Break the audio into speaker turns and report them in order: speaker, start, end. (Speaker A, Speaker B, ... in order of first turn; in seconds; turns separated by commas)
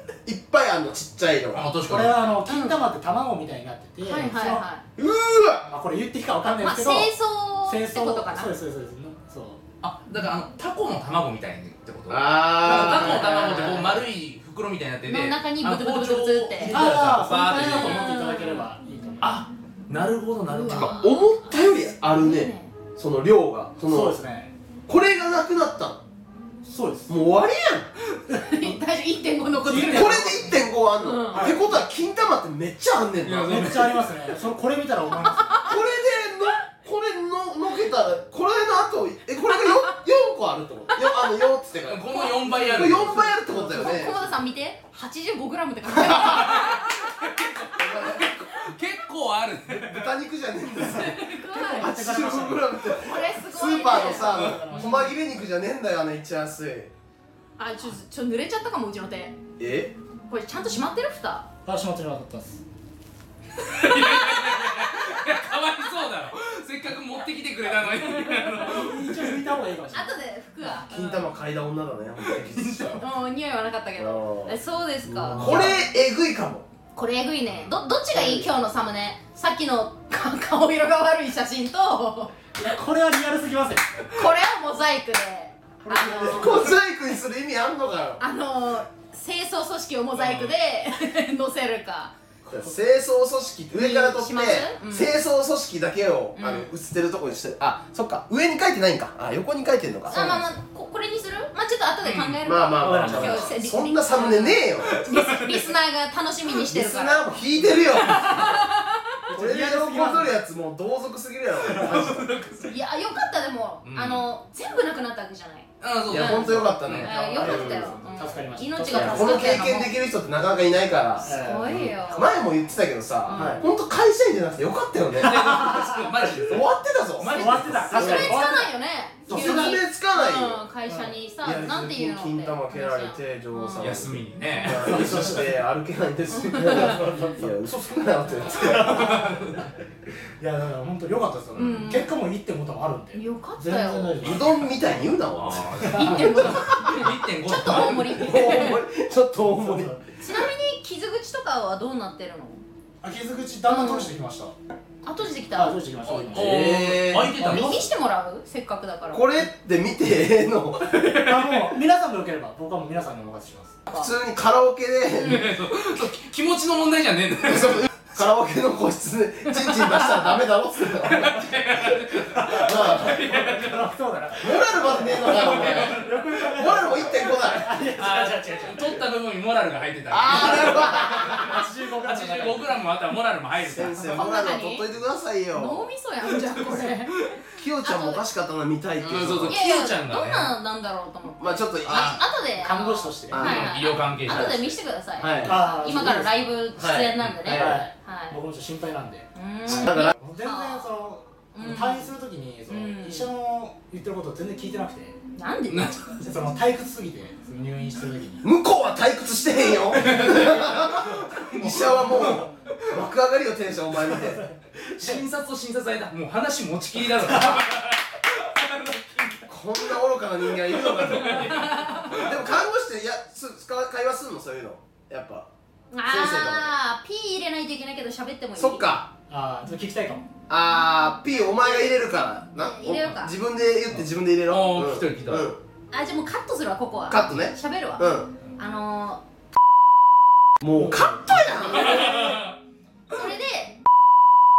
Speaker A: 0.3-1.6, Speaker B: 1.5-2.3, Speaker C: 1.9-4.7, Speaker D: 2.5-2.8, Speaker D: 4.0-4.8, Speaker A: 5.0-5.7, Speaker C: 5.7-7.1, Speaker D: 6.6-8.5, Speaker C: 7.6-9.6, Speaker B: 9.8-18.1, Speaker A: 12.1-13.8, Speaker C: 12.6-14.0, Speaker D: 12.7-13.9, Speaker D: 15.0-18.7, Speaker C: 16.6-19.4, Speaker B: 19.2-21.0, Speaker D: 20.4-22.7, Speaker A: 20.7-24.2, Speaker C: 23.9-24.5, Speaker A: 24.9-26.0, Speaker C: 26.6-27.2, Speaker A: 27.1-27.9, Speaker D: 28.3-31.6, Speaker C: 29.6-30.6, Speaker A: 29.7-33.8, Speaker C: 31.3-31.6, Speaker B: 33.2-34.1, Speaker C: 33.4-35.7, Speaker D: 35.5-35.7, Speaker A: 35.6-44.2, Speaker D: 39.5-39.9, Speaker D: 40.9-41.4, Speaker B: 41.8-43.3, Speaker D: 42.1-42.8, Speaker C: 42.5-44.4, Speaker D: 43.5-47.5, Speaker A: 45.9-46.2, Speaker B: 46.0-50.1, Speaker A: 47.8-48.5, Speaker A: 49.7-56.9, Speaker D: 50.7-55.1, Speaker C: 51.5-52.8, Speaker C: 53.8-55.1, Speaker D: 57.6-59.4, Speaker A: 59.6-60.0, Speaker D: 60.3-61.5, Speaker C: 61.6-62.6, Speaker B: 63.6-69.5, Speaker D: 63.9-64.9, Speaker D: 68.0-68.4, Speaker C: 68.5-70.1, Speaker D: 69.9-71.3, Speaker A: 70.7-73.0, Speaker B: 72.2-73.0, Speaker D: 73.0-75.7, Speaker A: 74.0-76.7, Speaker D: 76.9-82.3, Speaker A: 78.1-78.5, Speaker C: 82.5-84.0, Speaker D: 84.1-86.8, Speaker C: 85.8-86.6, Speaker A: 86.0-88.2, Speaker D: 88.2-92.1, Speaker C: 92.5-92.7, Speaker A: 92.5-100.4, Speaker D: 93.7-95.1, Speaker D: 96.4-96.7, Speaker D: 100.1-107.3, Speaker B: 102.0-102.4, Speaker A: 102.4-105.0, Speaker C: 102.8-103.5, Speaker B: 104.8-105.7, Speaker A: 106.5-108.7, Speaker D: 107.9-109.2, Speaker C: 109.3-110.3, Speaker A: 109.3-112.4, Speaker B: 111.7-112.8, Speaker D: 112.7-119.9, Speaker B: 113.8-114.3, Speaker B: 115.8-117.6, Speaker A: 116.0-118.0, Speaker C: 117.2-119.6, Speaker A: 118.9-125.5, Speaker C: 121.2-121.8, Speaker D: 121.3-122.4, Speaker D: 123.3-123.7, Speaker C: 123.3-123.6, Speaker B: 125.2-128.5, Speaker C: 125.2-126.1, Speaker A: 126.4-128.4, Speaker C: 127.2-129.8, Speaker D: 127.9-133.9, Speaker A: 129.3-130.6, Speaker C: 130.9-131.1, Speaker A: 131.4-139.4, Speaker B: 133.8-135.1, Speaker D: 134.5-134.9, Speaker C: 134.7-135.5, Speaker D: 136.3-137.0, Speaker C: 136.6-139.7, Speaker B: 139.1-139.5, Speaker C: 140.4-144.6, Speaker D: 141.6-142.1, Speaker D: 143.1-144.2, Speaker A: 144.2-147.1, Speaker B: 144.2-148.6, Speaker C: 145.8-146.2, Speaker D: 145.9-148.8, Speaker A: 147.9-150.0, Speaker C: 149.4-150.1, Speaker D: 150.2-152.6, Speaker C: 153.0-154.6, Speaker D: 153.7-154.1, Speaker D: 155.0-155.8, Speaker C: 155.6-156.7, Speaker B: 156.1-157.8, Speaker A: 156.3-157.4, Speaker C: 157.4-157.9, Speaker D: 157.4-159.4, Speaker A: 159.1-160.9, Speaker B: 160.9-161.7, Speaker C: 161.2-163.8, Speaker D: 163.9-164.1, Speaker A: 163.9-165.4, Speaker B: 165.2-167.9, Speaker D: 165.2-165.5, Speaker A: 167.4-173.3, Speaker B: 171.0-173.9, Speaker C: 172.3-179.0, Speaker A: 174.4-177.7, Speaker B: 175.0-176.3, Speaker B: 177.7-184.2, Speaker A: 180.1-181.6, Speaker C: 180.6-182.7, Speaker A: 183.6-185.9, Speaker D: 184.0-184.8, Speaker D: 185.5-187.3, Speaker B: 186.2-187.4, Speaker A: 187.6-189.6, Speaker D: 187.8-188.2, Speaker B: 189.0-190.5, Speaker D: 189.4-198.4, Speaker A: 191.4-192.2, Speaker B: 191.8-192.2, Speaker C: 192.6-193.4, Speaker A: 193.3-193.7, Speaker B: 193.4-194.8, Speaker A: 194.2-196.1, Speaker C: 195.4-196.6, Speaker A: 196.7-197.8, Speaker C: 197.5-199.3, Speaker D: 199.3-200.9, Speaker A: 199.7-200.1, Speaker C: 199.8-205.2, Speaker D: 201.5-202.1, Speaker D: 202.7-203.3, Speaker D: 205.3-206.0, Speaker B: 205.7-206.0, Speaker C: 206.2-208.5, Speaker A: 208.4-214.4, Speaker B: 209.9-212.4, Speaker C: 210.0-212.5, Speaker C: 214.4-215.2, Speaker B: 215.0-219.4, Speaker A: 219.5-225.5, Speaker B: 220.6-222.6, Speaker D: 221.4-222.2, Speaker D: 225.9-228.9, Speaker A: 226.0-226.7, Speaker A: 228.6-229.1, Speaker C: 229.3-230.3, Speaker A: 230.5-235.6, Speaker D: 231.3-231.9, Speaker D: 232.6-233.3, Speaker B: 233.9-235.5, Speaker D: 235.9-239.2, Speaker A: 237.1-238.3, Speaker A: 240.6-242.2, Speaker C: 240.8-242.4, Speaker B: 241.4-242.5, Speaker D: 243.1-243.8